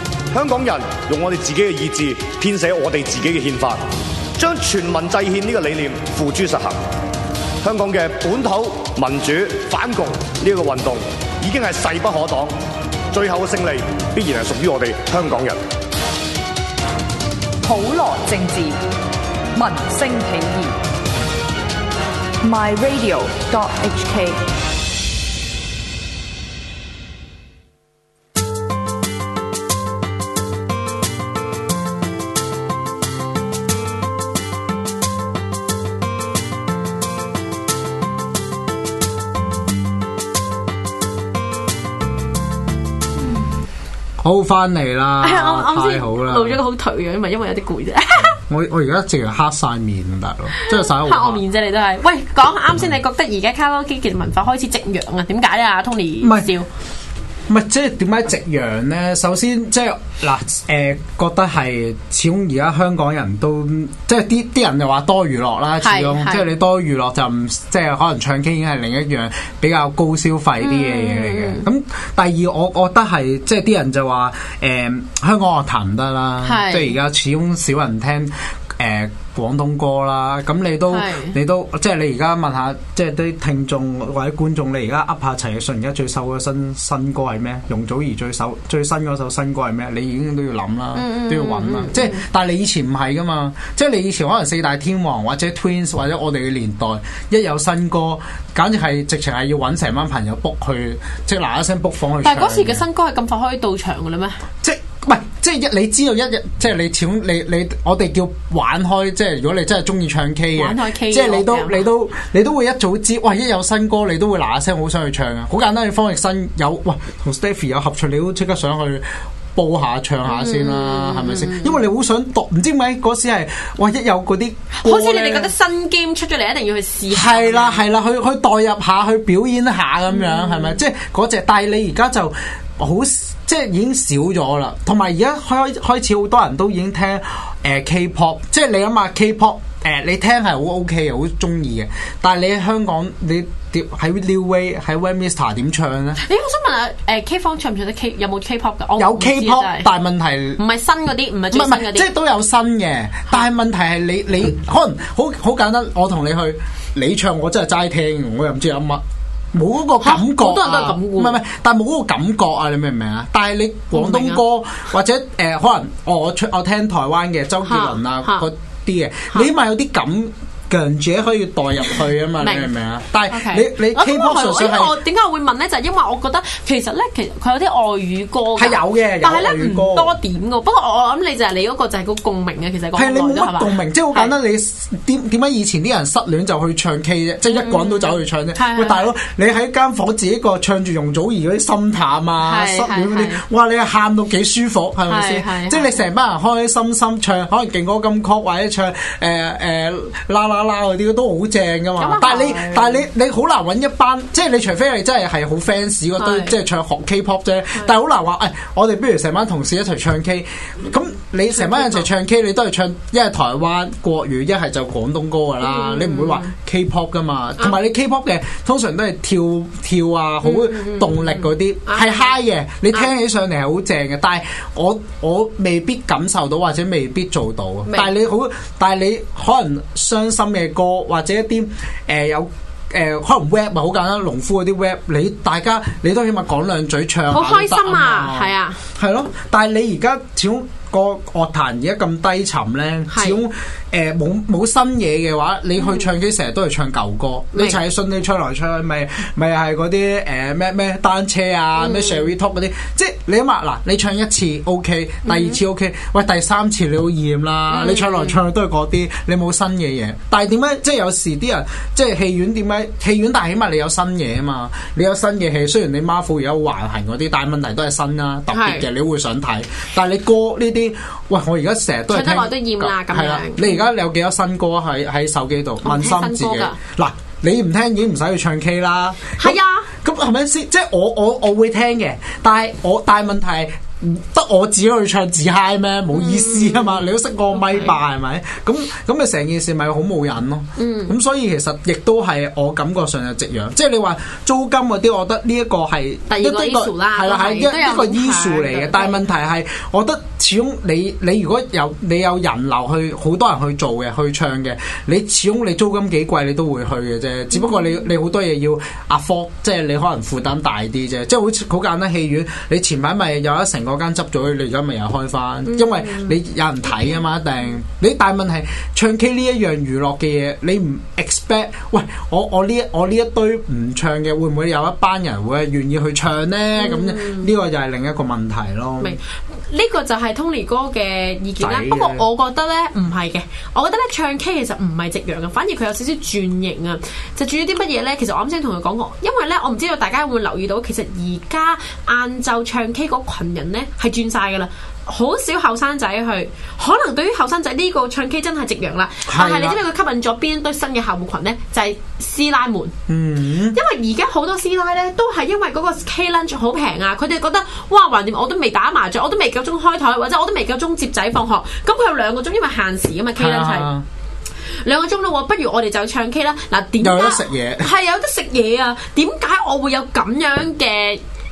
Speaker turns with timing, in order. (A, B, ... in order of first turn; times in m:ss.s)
0:00.3-0:03.8 A
0:04.4-0:06.8 A
0:07.6-0:12.6 A
0:13.1-0:15.6 A
0:17.6-0:18.8 B
0:19.5-0:20.8 B
0:22.4-0:24.4 B
0:44.2-0:46.6 C
0:45.2-0:48.4 D
0:48.4-0:51.4 C
0:50.6-0:56.7 D
0:56.2-0:56.5 C
0:57.5-1:42.8 C
1:05.8-1:06.5 D
1:10.6-1:11.7 D
1:16.4-1:16.9 D
1:20.9-1:21.4 D
1:30.9-1:32.2 D
1:42.2-1:44.4 D
1:44.6-2:05.5 C
1:50.5-1:51.9 D
2:00.3-2:01.8 D
2:04.7-2:07.8 D
2:07.1-2:26.2 C
2:10.1-2:10.8 D
2:26.2-2:29.9 D
2:29.0-2:30.6 C
2:30.6-2:32.1 D
2:31.5-2:55.0 C
2:40.0-2:41.4 D
2:43.9-2:44.4 D
2:47.6-2:48.5 D
2:52.4-2:52.7 D
2:53.3-3:04.3 D
2:58.6-3:00.1 C
3:02.9-5:29.2 C
3:07.5-3:09.0 D
3:12.4-3:13.4 D
3:15.1-3:16.0 D
3:22.0-3:23.0 D
3:26.2-3:26.5 D
3:31.5-3:32.1 D
3:35.6-3:36.5 D
3:40.4-3:42.4 D
3:57.3-3:58.8 D
4:03.1-4:03.4 D
4:05.8-4:06.1 D
4:07.5-4:07.8 D
4:11.8-4:12.3 D
4:15.2-4:15.6 D
4:17.7-4:18.4 D
4:28.5-4:28.8 D
4:32.1-4:33.8 D
4:35.8-4:36.8 D
4:39.4-4:39.9 D
4:46.1-4:47.9 D
4:50.8-4:51.1 D
4:56.3-4:59.2 D
5:15.6-5:16.4 D
5:26.8-5:27.5 D
5:29.0-5:52.9 D
5:31.6-5:32.2 C
5:49.2-5:49.8 C
5:53.1-5:53.8 C
5:53.7-6:03.9 D
6:03.4-6:04.0 C
6:04.8-6:11.2 D
6:07.0-6:07.9 C